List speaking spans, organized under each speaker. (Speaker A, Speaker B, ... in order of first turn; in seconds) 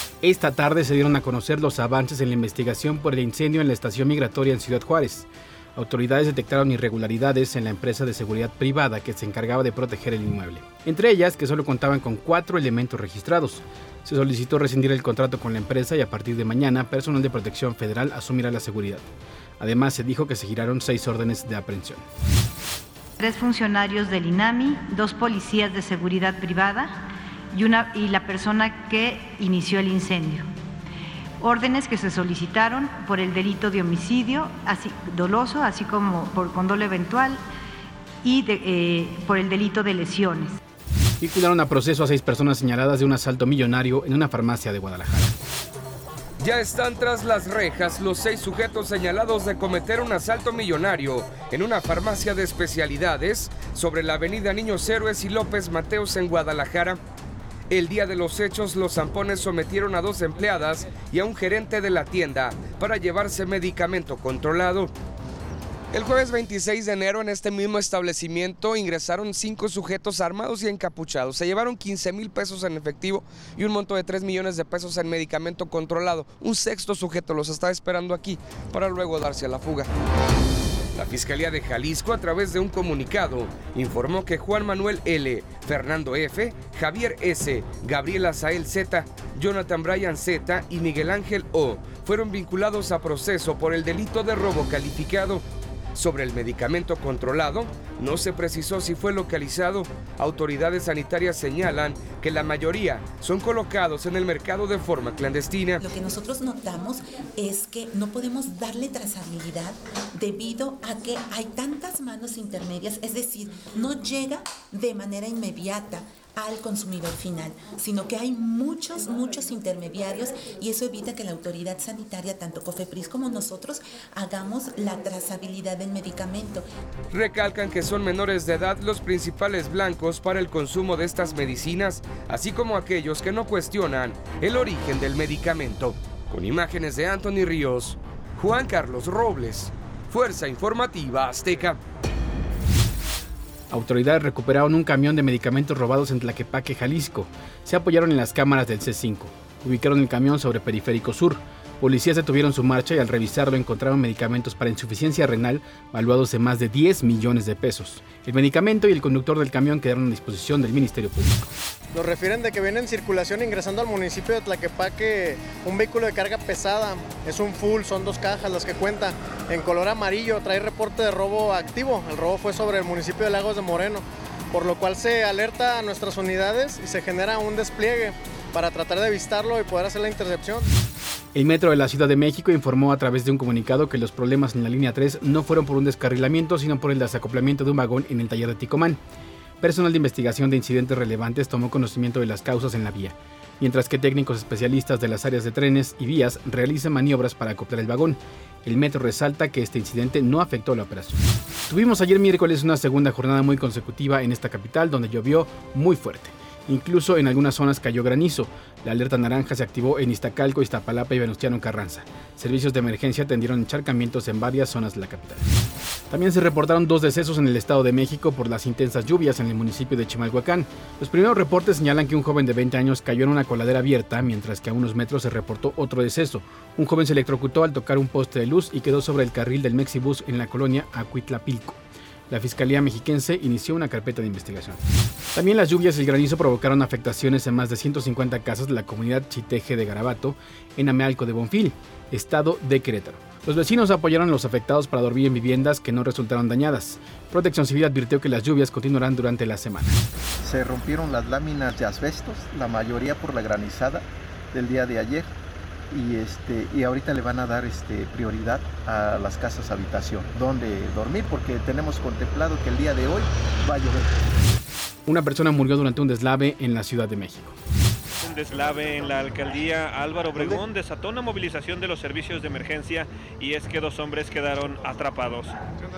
Speaker A: 0.2-19.1, 19.6-22.0, 41.2-45.4, 143.7-161.5, 181.3-189.0, 189.6-215.5, 216.1-234.8, 235.3-250.0, 265.1-267.6
Speaker B: 23.2-30.5, 31.4-37.4, 38.2-40.6
Speaker C: 46.4-57.0, 57.7-64.9, 65.9-79.9, 81.0-95.4, 96.0-105.8, 127.1-141.8
Speaker D: 105.8-126.7
Speaker E: 161.9-180.7
Speaker F: 250.4-255.3, 255.9-264.2
Speaker G: 268.2-275.6